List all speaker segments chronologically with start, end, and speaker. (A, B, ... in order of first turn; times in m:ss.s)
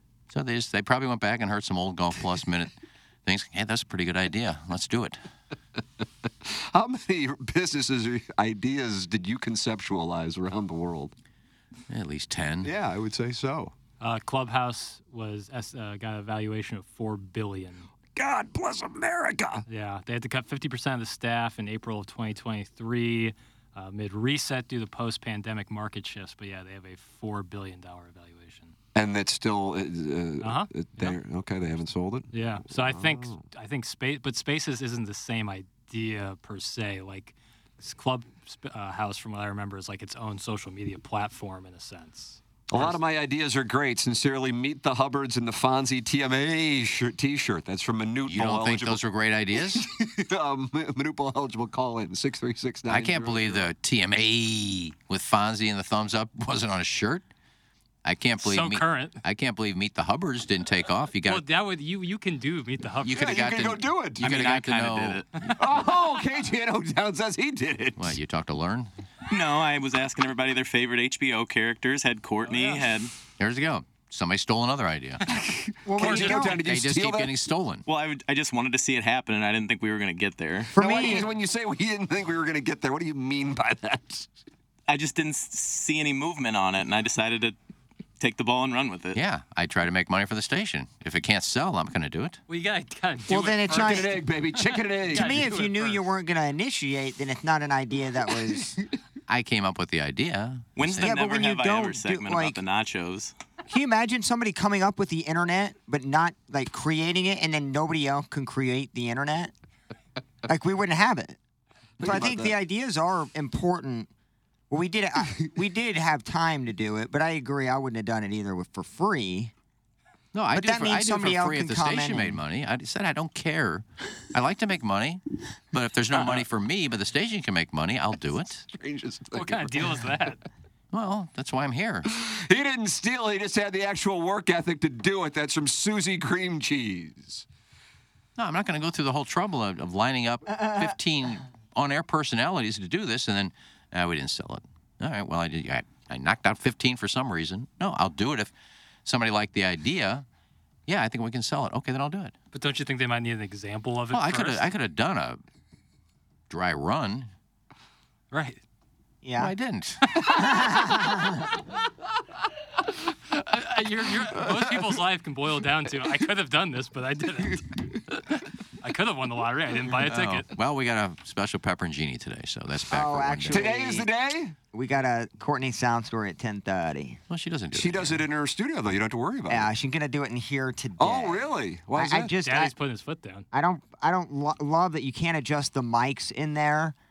0:00.3-0:02.7 A
0:03.2-0:05.2 A
0:06.4-0:11.1 B
0:11.9-0:12.7 A
0:12.6-0:13.7 B
0:14.0-0:17.9 C
0:18.1-0:19.6 B
0:19.7-0:28.7 C
0:28.9-0:33.4 B
0:30.4-0:31.2 C
0:32.3-0:43.0 C
0:42.7-0:49.0 B
0:48.3-0:49.9 A
0:49.6-0:53.7 B
0:52.9-0:57.2 A
0:58.0-1:01.4 A
0:58.4-0:59.2 C
1:01.2-1:03.3 C
1:03.0-1:05.2 A
1:03.1-1:04.3 B
1:04.2-1:05.4 D
1:05.6-1:08.2 B
1:08.0-1:08.9 A
1:09.3-1:13.1 D
1:13.4-1:15.2 A
1:15.3-1:17.3 B
1:15.8-1:16.6 E
1:16.1-1:17.8 A
1:17.8-1:20.7 D
1:20.7-1:21.3 E
1:20.7-1:24.3 B
1:24.9-1:27.6 D
1:28.2-1:29.2 D
1:29.1-1:32.4 A
1:32.5-1:36.0 C
1:33.3-1:34.1 E
1:33.7-1:35.5 B
1:35.1-1:38.8 E
1:39.3-1:41.1 A
1:40.8-1:43.3 D
1:40.9-1:42.6 E
1:43.7-1:49.5 E
1:50.4-1:51.4 E
1:52.0-1:52.6 B
1:52.0-1:54.1 E
1:54.7-1:59.5 E
2:00.3-2:08.7 A
2:00.5-2:02.4 E
2:08.7-2:10.0 B
2:09.3-2:10.4 C
2:10.9-2:12.1 A
2:12.0-2:17.5 B
2:18.4-2:28.5 A
2:20.6-2:20.8 E
2:29.0-2:30.2 A
2:30.9-2:32.3 A
2:32.5-2:34.6 C
2:34.1-2:35.4 A
2:36.5-2:37.3 A
2:38.3-2:38.6 C
2:39.2-2:39.5 E
2:39.4-2:40.2 A
2:40.3-2:41.3 E
2:43.3-2:50.5 C
2:50.0-2:53.6 A
2:52.9-2:54.1 E
2:53.5-2:54.5 B
2:54.7-2:57.2 E
2:57.3-2:58.2 A
2:57.7-2:59.7 B
2:59.5-3:02.7 E
3:01.0-3:02.3 B
3:02.4-3:03.5 C
3:03.5-3:07.0 E